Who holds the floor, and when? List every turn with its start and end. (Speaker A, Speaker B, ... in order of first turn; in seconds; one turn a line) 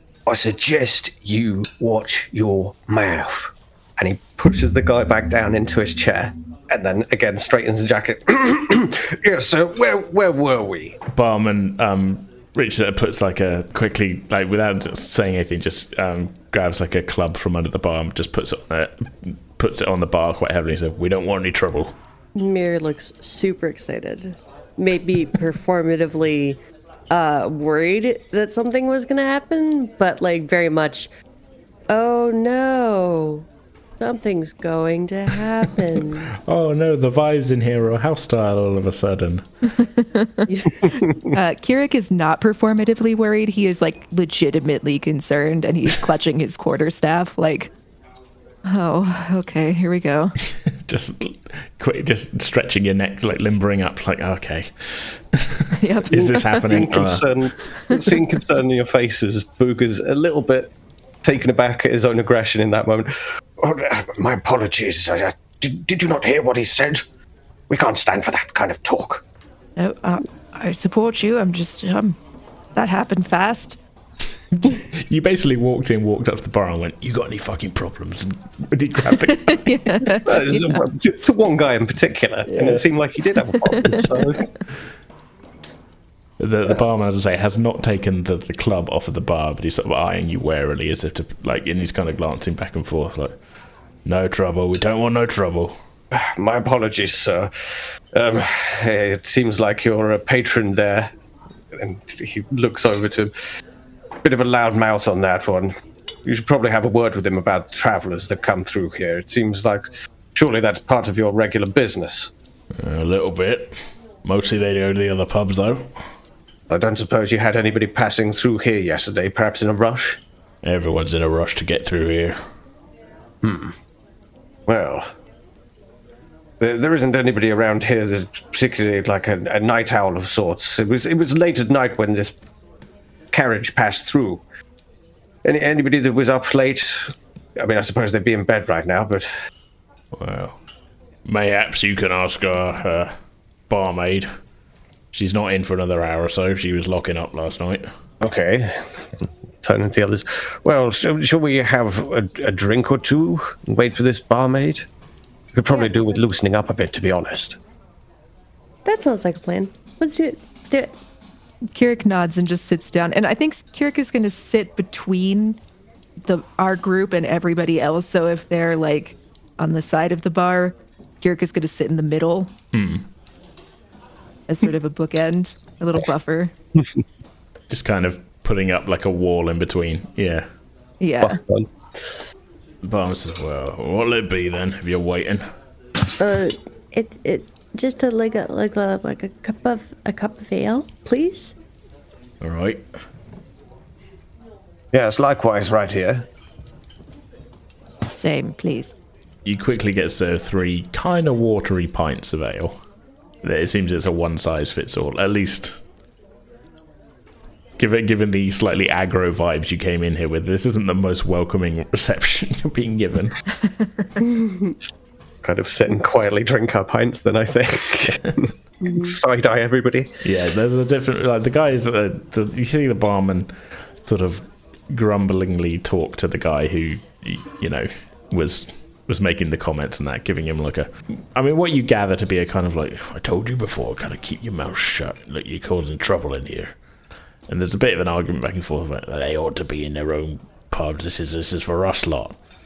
Speaker A: 0.3-11.0
Speaker B: 11.1-21.9
Speaker C: 22.3-31.1
Speaker C: 31.9-33.5
Speaker C: 34.0-36.3
Speaker B: 36.4-39.5
Speaker D: 39.8-40.5
Speaker C: 40.5-40.9
Speaker A: 40.8-41.3
Speaker D: 41.3-47.7
Speaker D: 48.6-50.3
Speaker B: 50.5-57.3
Speaker D: 55.8-56.8
Speaker A: 56.1-60.7
Speaker A: 61.2-67.0
Speaker A: 67.7-69.2
Speaker D: 69.8-72.2
Speaker D: 72.7-73.8
Speaker B: 74.5-80.2
Speaker D: 79.2-80.8
Speaker A: 80.2-84.5
Speaker B: 82.5-82.8
Speaker D: 83.7-84.1
Speaker B: 83.9-84.2
Speaker B: 86.4-93.4
Speaker B: 94.0-95.7
Speaker A: 96.1-97.5
Speaker A: 98.1-101.1
Speaker A: 101.7-103.3
Speaker A: 104.2-105.7
Speaker A: 106.2-112.3
Speaker B: 112.7-115.9
Speaker A: 116.7-120.2
Speaker B: 120.6-122.4
Speaker A: 123.4-123.8
Speaker A: 124.7-125.1
Speaker A: 126.6-132.4
Speaker A: 133.3-134.4
Speaker A: 135.4-139.3
Speaker B: 140.1-140.6
Speaker B: 141.2-143.1
Speaker B: 143.7-144.3
Speaker B: 145.1-147.9
Speaker A: 148.2-154.9
Speaker A: 155.5-157.6
Speaker C: 155.7-156.1
Speaker C: 158.8-161.0
Speaker D: 161.7-165.6
Speaker D: 166.2-172.5
Speaker B: 172.7-173.1
Speaker D: 174.5-176.5
Speaker A: 176.8-177.0
Speaker B: 177.7-180.5
Speaker D: 181.0-181.4
Speaker A: 181.2-182.2
Speaker B: 182.8-185.4
Speaker C: 186.2-191.5
Speaker B: 192.4-192.9
Speaker A: 194.9-196.2
Speaker D: 198.1-198.9
Speaker B: 199.4-202.8
Speaker B: 203.4-205.8
Speaker B: 207.8-213.4
Speaker C: 214.4-214.7
Speaker A: 215.4-220.2
Speaker C: 218.8-219.1
Speaker B: 220.2-223.5
Speaker B: 224.0-236.7
Speaker B: 237.5-242.3